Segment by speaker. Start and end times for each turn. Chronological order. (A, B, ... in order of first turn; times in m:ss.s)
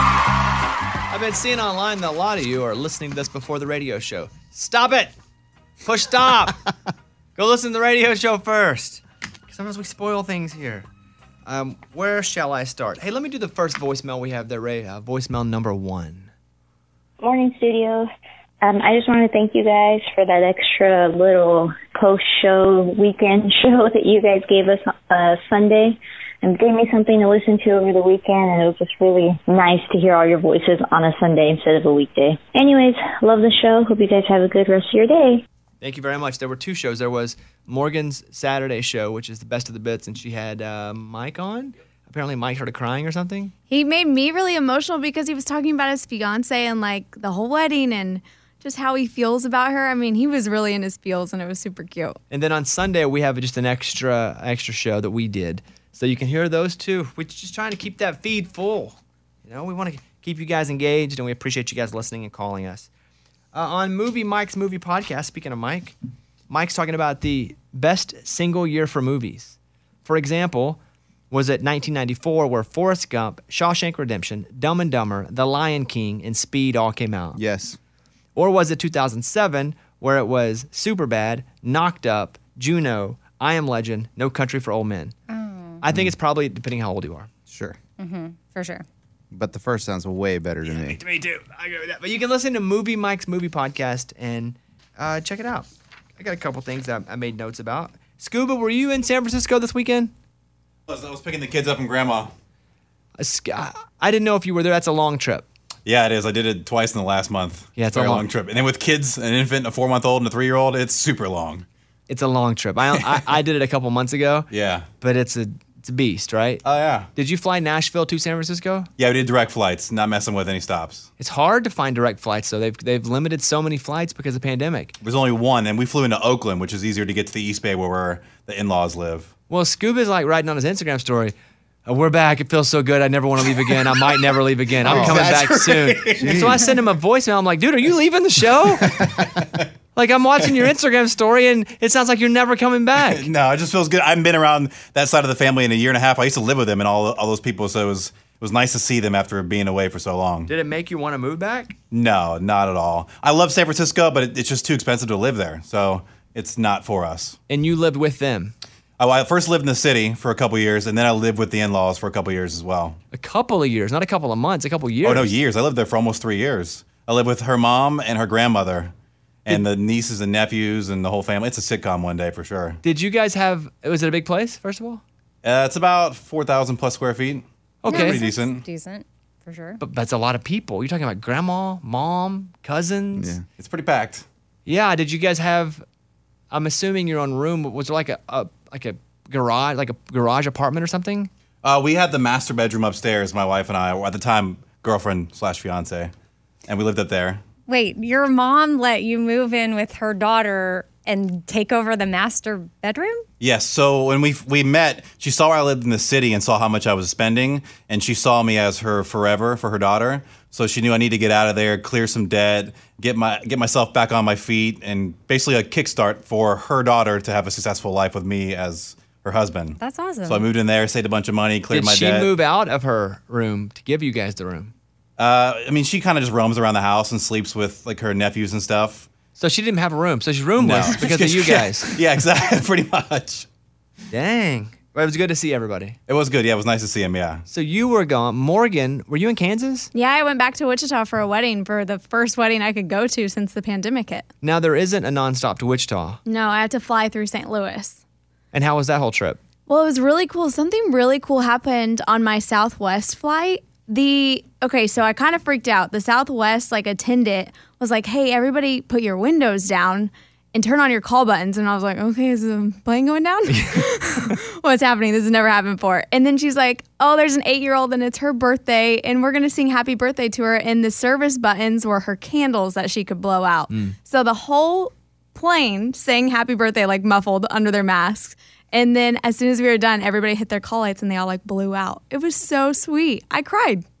0:01.1-0:05.1 A
0:05.8-0:06.6 A
0:07.4-0:10.9 A
0:11.4-0:16.3 A
0:17.2-0:18.1 B
0:18.6-0:35.4 B
0:35.8-0:43.5 A
0:43.7-0:52.2 C
0:52.3-1:02.9 A
1:03.5-1:06.0 A
1:06.5-1:10.8 A
1:11.3-1:17.4 A
1:17.3-1:17.8 D
1:18.4-1:25.1 A
1:25.3-1:25.8 E
1:25.8-1:27.3 A
1:27.5-1:27.8 D
1:28.0-1:28.8 E
1:29.3-1:31.0 D
1:30.7-1:40.1 A
1:40.9-1:42.3 F
1:43.2-1:45.5 A
1:45.8-1:51.6 F
1:47.8-1:48.3 A
1:52.1-1:54.5 A
1:54.5-1:54.9 F
1:55.0-1:56.6 A
1:56.6-1:57.1 F
1:57.1-1:58.9 A
1:59.0-2:01.1 F
2:01.2-2:04.9 A
2:05.0-2:09.3 F
2:09.5-2:11.3 A
2:11.8-2:18.9 A
2:14.8-2:16.6 F
2:14.8-2:16.7 D
2:18.8-2:19.2 D
2:19.9-2:23.3 A
2:23.0-2:30.5 F
2:30.5-2:31.8 A
2:31.9-2:37.4 F
2:37.5-2:38.5 A
2:39.0-2:43.0 F
2:43.1-2:45.3 A
2:45.0-2:48.9 F
2:49.4-2:52.8 F
2:52.8-2:55.0 A
2:55.4-2:58.6 F
2:57.8-2:58.2 A
2:57.9-2:59.8 E
2:59.8-3:03.4 A
3:03.2-3:03.4 D
3:03.6-3:04.2 F
3:04.6-3:05.8 A
3:06.5-3:11.3 A
3:11.6-3:16.1 F
3:16.7-3:17.4 F
3:17.7-3:23.2 E
3:23.4-3:42.3 F
3:39.8-3:40.5 E
3:41.7-3:44.7 A
3:45.2-3:49.1 F
3:49.4-3:51.9 A
3:50.6-3:53.5 F
3:54.1-3:56.0 A
3:56.1-3:57.4 F
3:57.5-3:59.9 A
3:59.9-4:04.3 C
4:04.4-4:06.2 A
4:06.2-4:08.0 C
4:08.5-4:09.4 A
4:09.7-4:43.8 C
4:23.5-4:23.8 A
4:33.7-4:33.9 A